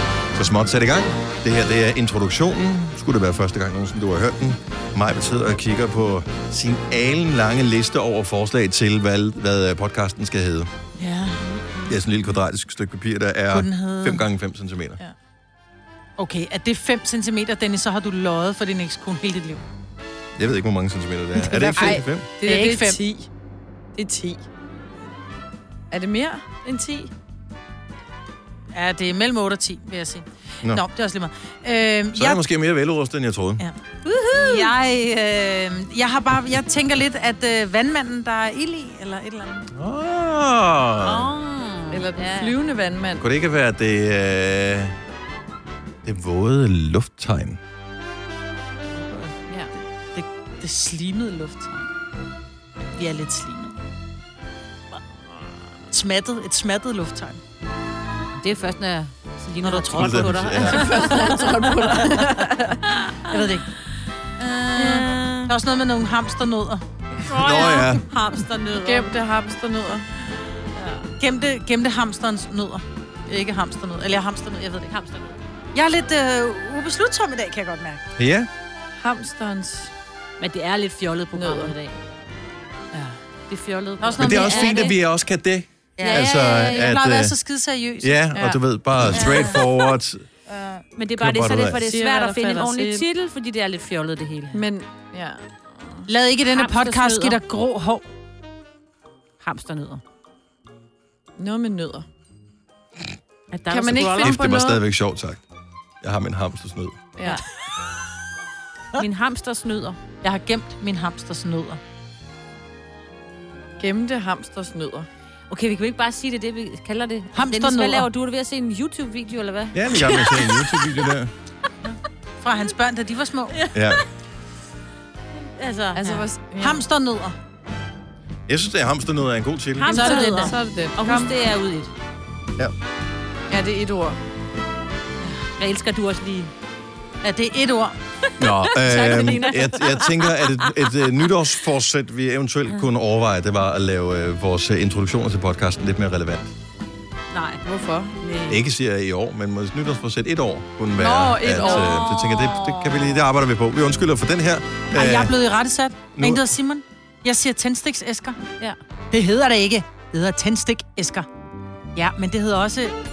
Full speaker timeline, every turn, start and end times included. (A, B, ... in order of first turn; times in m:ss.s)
0:00.4-0:10.7 A
0:11.0-0:11.4 B
0:11.5-0:11.9 C
0:11.9-0:15.0 A
0:13.5-0:14.3 B
0:16.2-0:19.6 B
0:20.4-0:22.3 A
0:21.4-0:23.0 B
0:21.7-0:23.3 D
0:24.0-0:24.4 D
0:25.9-0:27.1 D
0:28.7-0:32.4 B
0:32.1-0:33.6 A
0:34.0-0:34.7 C
0:34.3-0:39.7 B
0:39.7-0:41.3 A
0:41.0-0:42.6 C
0:41.9-0:43.2 D
0:43.2-0:44.9 A
0:46.0-0:47.6 A
0:49.0-0:49.3 B
0:49.5-0:49.7 C
0:50.1-0:51.9 B
0:52.9-0:53.8 B
0:55.9-0:57.4 B
0:58.4-1:03.6 C
0:59.6-1:02.2 B
1:00.0-1:00.8 A
1:00.7-1:02.7 D
1:03.3-1:03.7 B
1:04.4-1:06.8 B
1:04.7-1:05.5 C
1:07.2-1:09.1 C
1:07.3-1:08.0 A
1:08.8-1:10.0 D
1:10.7-1:11.1 C
1:11.2-1:14.9 B
1:14.9-1:15.4 C
1:15.7-1:18.1 B
1:18.2-1:18.5 A
1:19.0-1:19.9 D
1:20.4-1:22.0 C
1:21.3-1:21.7 D
1:22.9-1:23.2 B
1:23.5-1:25.0 C
1:24.0-1:24.9 B
1:24.2-1:27.3 A
1:26.0-1:28.3 B
1:26.0-1:26.9 C
1:28.0-1:30.2 A
1:28.3-1:28.6 D
1:29.1-1:29.6 B
1:29.2-1:29.5 C
1:30.5-1:30.8 B
1:31.0-1:34.6 C
1:31.2-1:31.8 A
1:31.8-1:33.0 D
1:34.5-1:36.0 D
1:36.1-1:38.0 B
1:36.5-1:37.4 C
1:39.4-1:40.0 C
1:41.4-1:42.0 D
1:43.5-1:44.4 C
1:43.7-1:44.8 D
1:44.2-1:45.4 A
1:46.0-1:47.0 A
1:47.2-1:47.4 C
1:49.0-1:50.0 C
1:50.2-1:51.8 B
1:53.8-1:55.1 D
1:55.5-2:00.7 C
1:57.3-1:58.1 B
1:59.7-2:01.3 A
2:02.4-2:03.6 B
2:03.5-2:04.0 C
2:03.7-2:04.0 A
2:05.3-2:06.1 C
2:05.9-2:06.8 D
2:06.0-2:07.4 B
2:08.5-2:10.0 A
2:09.8-2:11.9 C
2:09.9-2:10.5 B
2:09.9-2:11.3 D
2:13.5-2:14.2 D
2:15.2-2:16.5 C
2:17.2-2:18.0 B
2:18.4-2:26.5 A
2:18.4-2:21.1 C
2:27.3-2:27.6 C
2:27.6-2:28.1 D
2:28.2-2:28.6 C
2:28.5-2:35.3 A
2:31.0-2:32.0 D
2:31.4-2:33.0 C
2:34.9-2:38.4 B
2:36.1-2:36.4 A
2:39.1-2:41.3 B
2:41.9-2:43.0 B